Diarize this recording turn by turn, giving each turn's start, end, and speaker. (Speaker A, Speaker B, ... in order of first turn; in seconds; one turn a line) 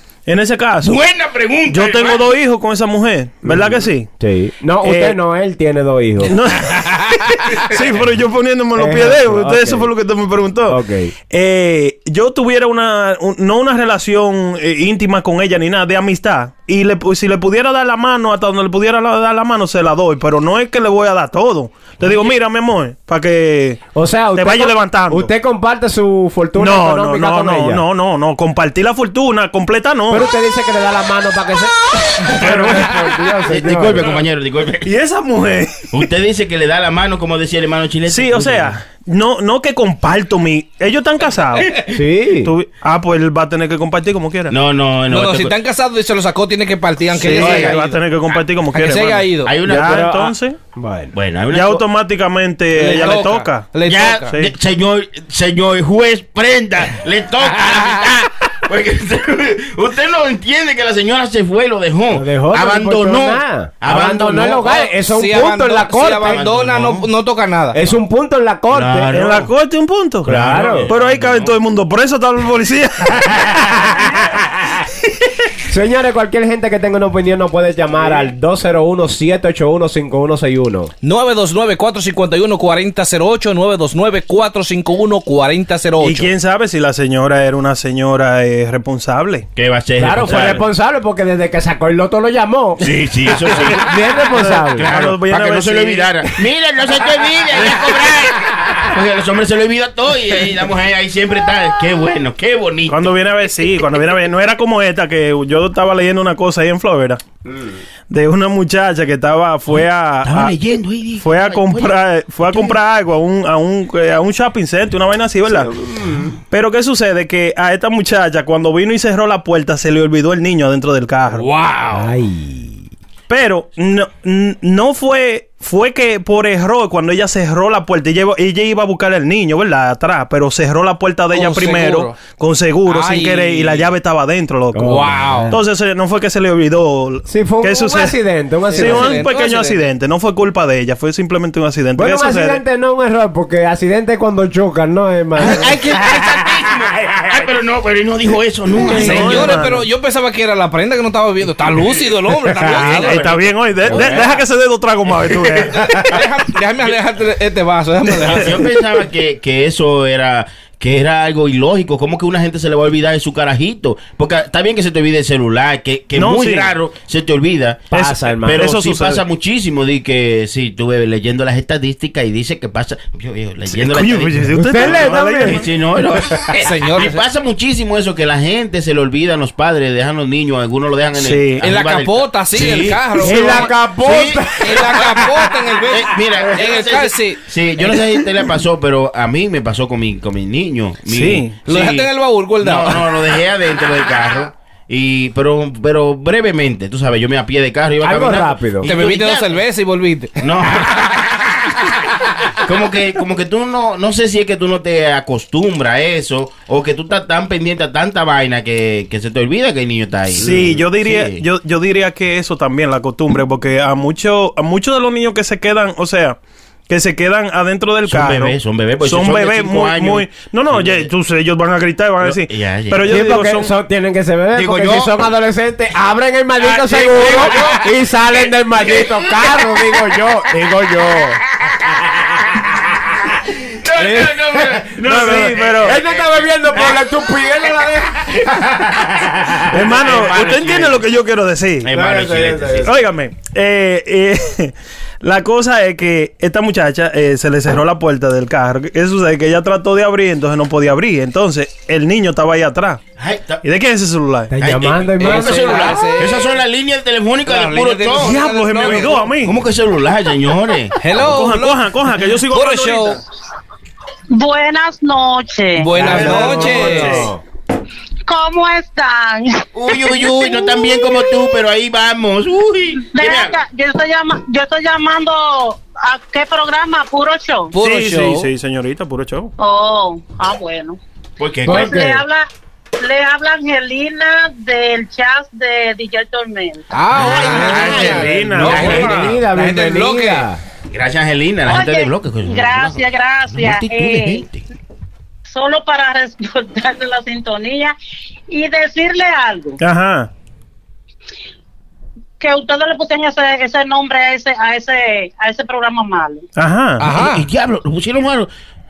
Speaker A: 0.3-0.9
Speaker B: 0.8-2.3
Speaker A: 1.7-4.1
Speaker C: 3.4-6.3
Speaker A: 4.8-5.2
Speaker A: 6.2-10.8
Speaker C: 8.8-9.9
Speaker C: 10.7-11.1
Speaker A: 11.3-23.8
Speaker C: 23.9-27.8
Speaker A: 24.4-25.3
Speaker A: 26.6-30.3
Speaker C: 30.1-34.0
Speaker A: 32.4-33.1
Speaker B: 33.5-34.9
Speaker A: 34.8-35.9
Speaker B: 35.9-38.8
Speaker A: 38.1-41.9
Speaker C: 41.9-42.5
Speaker A: 42.4-44.5
Speaker B: 44.5-45.5
Speaker D: 45.1-48.0
Speaker B: 47.1-47.8
Speaker A: 47.2-50.6
Speaker D: 48.7-49.5
Speaker B: 49.4-50.1
Speaker C: 49.7-51.1
Speaker B: 51.1-51.8
Speaker A: 51.5-53.7
Speaker D: 52.7-54.3
Speaker B: 53.8-64.9
Speaker C: 62.1-66.5
Speaker D: 65.0-67.8
Speaker B: 66.2-67.1
Speaker C: 67.7-69.1
Speaker B: 68.7-69.5
Speaker A: 69.1-74.3
Speaker B: 70.2-71.5
Speaker C: 70.2-70.9
Speaker C: 75.7-80.9
Speaker D: 81.0-86.3
Speaker A: 86.0-89.5
Speaker B: 89.5-90.7
Speaker C: 90.0-92.9
Speaker B: 92.8-93.9
Speaker A: 93.5-96.1
Speaker C: 93.6-94.8
Speaker B: 94.8-103.1
Speaker A: 102.9-107.2
Speaker C: 107.5-107.8
Speaker A: 108.1-110.5
Speaker B: 109.7-112.0
Speaker A: 111.2-115.7
Speaker B: 112.5-112.8
Speaker C: 115.7-116.3
Speaker A: 116.5-121.5
Speaker D: 121.3-122.1
Speaker C: 121.9-122.8
Speaker A: 123.3-138.2
Speaker D: 131.3-132.2
Speaker D: 132.8-133.9
Speaker C: 134.7-135.6
Speaker D: 134.8-135.5
Speaker C: 137.3-139.2
Speaker D: 138.7-139.8
Speaker A: 138.7-142.6
Speaker C: 141.9-145.7
Speaker B: 145.4-149.6
Speaker C: 148.9-149.3
Speaker A: 148.9-149.8
Speaker D: 148.9-153.4
Speaker B: 152.6-154.3
Speaker A: 152.8-156.0
Speaker D: 153.9-154.2
Speaker D: 155.7-158.6
Speaker A: 158.2-158.5
Speaker B: 158.3-167.9
Speaker A: 166.2-166.7
Speaker C: 167.9-168.7
Speaker A: 167.9-169.2
Speaker B: 168.4-183.4
Speaker A: 173.7-175.7
Speaker C: 174.6-175.6
Speaker D: 176.5-177.2
Speaker A: 181.2-181.6
Speaker D: 181.6-183.7
Speaker C: 183.2-185.4
Speaker B: 184.0-184.7
Speaker D: 184.6-188.0
Speaker B: 185.9-192.1
Speaker A: 191.1-191.5
Speaker D: 191.7-193.2
Speaker B: 192.6-199.6
Speaker C: 198.0-198.9
Speaker D: 198.8-201.2
Speaker B: 200.4-201.7
Speaker B: 202.6-211.4
Speaker A: 210.3-216.4
Speaker A: 216.9-223.7
Speaker B: 218.1-221.1
Speaker B: 222.2-223.2
Speaker C: 223.1-231.4
Speaker B: 224.5-225.3
Speaker D: 226.6-227.8
Speaker B: 226.7-227.8
Speaker B: 228.8-229.5
Speaker B: 231.6-232.2
Speaker B: 233.6-237.0
Speaker C: 233.9-239.8
Speaker A: 235.0-236.0
Speaker B: 238.3-238.7
Speaker B: 239.7-241.0
Speaker A: 239.7-241.9
Speaker B: 241.8-242.9
Speaker C: 241.9-242.9
Speaker A: 242.8-253.0
Speaker B: 253.2-253.6
Speaker A: 253.6-254.5
Speaker C: 254.5-256.1
Speaker B: 254.6-261.0
Speaker D: 255.2-256.6
Speaker D: 257.4-259.3
Speaker A: 258.2-259.5
Speaker D: 261.0-263.2
Speaker A: 261.2-263.2
Speaker E: 264.3-265.9
Speaker D: 265.8-267.3
Speaker C: 266.0-267.4
Speaker A: 266.0-267.3
Speaker E: 268.3-270.9
Speaker B: 269.7-273.6
Speaker E: 273.1-277.7
Speaker D: 277.7-278.5
Speaker A: 277.8-279.5
Speaker E: 279.6-281.0
Speaker B: 281.4-282.2
Speaker C: 281.6-282.2
Speaker E: 281.6-282.4
Speaker E: 283.0-286.8
Speaker D: 286.9-290.4
Speaker B: 287.1-289.3
Speaker C: 287.3-290.6
Speaker A: 287.7-289.4
Speaker B: 290.9-293.0
Speaker E: 291.7-294.4
Speaker B: 293.5-294.6
Speaker E: 295.5-297.9
Speaker E: 298.5-299.8
Speaker A: 299.8-300.3
Speaker E: 302.4-306.4
Speaker A: 306.6-307.1
Speaker D: 307.0-307.5
Speaker B: 307.1-308.5